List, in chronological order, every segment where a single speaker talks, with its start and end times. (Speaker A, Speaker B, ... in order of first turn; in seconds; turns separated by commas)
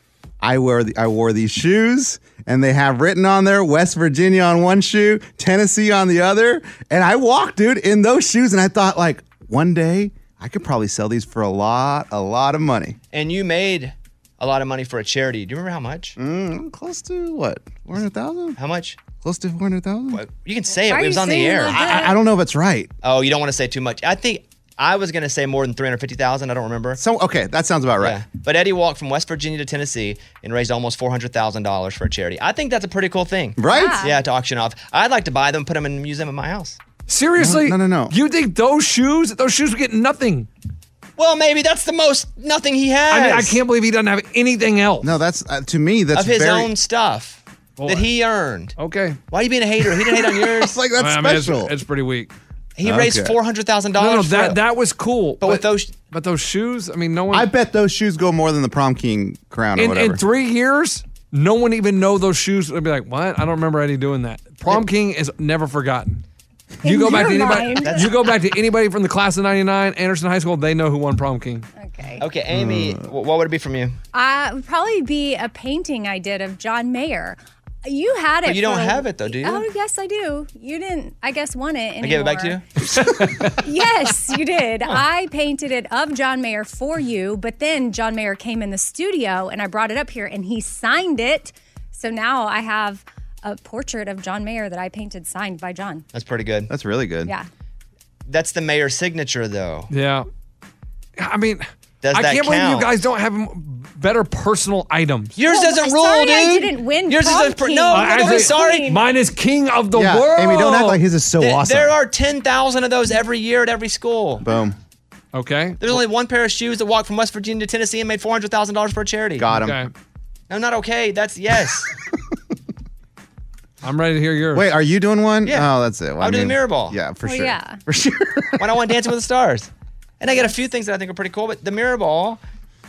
Speaker A: 0.4-13.0, Speaker B: 13.1-16.1, Speaker A: 16.2-18.6, Speaker B: 18.6-19.0, Speaker A: 19.2-20.2, Speaker B: 20.1-22.0, Speaker C: 20.9-22.1, Speaker A: 21.7-22.9, Speaker B: 23.0-27.0, Speaker A: 27.0-28.2, Speaker B: 28.0-36.8, Speaker A: 33.6-34.0, Speaker C: 33.7-34.1, Speaker D: 37.1-40.5, Speaker A: 37.4-38.1, Speaker B: 41.2-43.6, Speaker D: 43.1-45.1, Speaker A: 45.0-46.7, Speaker B: 46.1-48.7, Speaker D: 47.8-48.1, Speaker D: 48.8-49.2, Speaker B: 49.3-50.8, Speaker A: 50.3-51.7, Speaker D: 50.9-52.3, Speaker B: 52.8-54.6, Speaker A: 52.8-53.4, Speaker D: 54.0-57.5, Speaker B: 55.4-55.9, Speaker A: 57.3-60.2, Speaker D: 59.8-66.2, Speaker C: 66.8-68.1, Speaker D: 66.8-71.7, Speaker B: 67.8-68.1, Speaker C: 71.8-72.2, Speaker B: 72.2-73.9, Speaker A: 72.5-73.0, Speaker C: 74.1-82.6, Speaker B: 78.4-79.6, Speaker B: 82.0-82.6, Speaker C: 83.5-96.0, Speaker B: 96.1-96.7, Speaker A: 96.7-97.3, Speaker B: 98.3-99.9, Speaker D: 99.9-100.3, Speaker D: 101.2-105.3, Speaker B: 102.0-102.9, Speaker B: 105.3-109.0, Speaker C: 105.4-109.0, Speaker D: 107.9-111.0, Speaker A: 109.9-111.9, Speaker B: 111.4-114.4, Speaker A: 114.4-114.7, Speaker D: 115.3-115.8, Speaker B: 115.8-119.5, Speaker A: 119.4-119.8, Speaker D: 119.5-119.9, Speaker B: 120.5-121.9, Speaker D: 123.8-124.7, Speaker A: 124.5-128.7, Speaker B: 125.4-127.0, Speaker C: 127.2-127.8, Speaker B: 128.6-132.4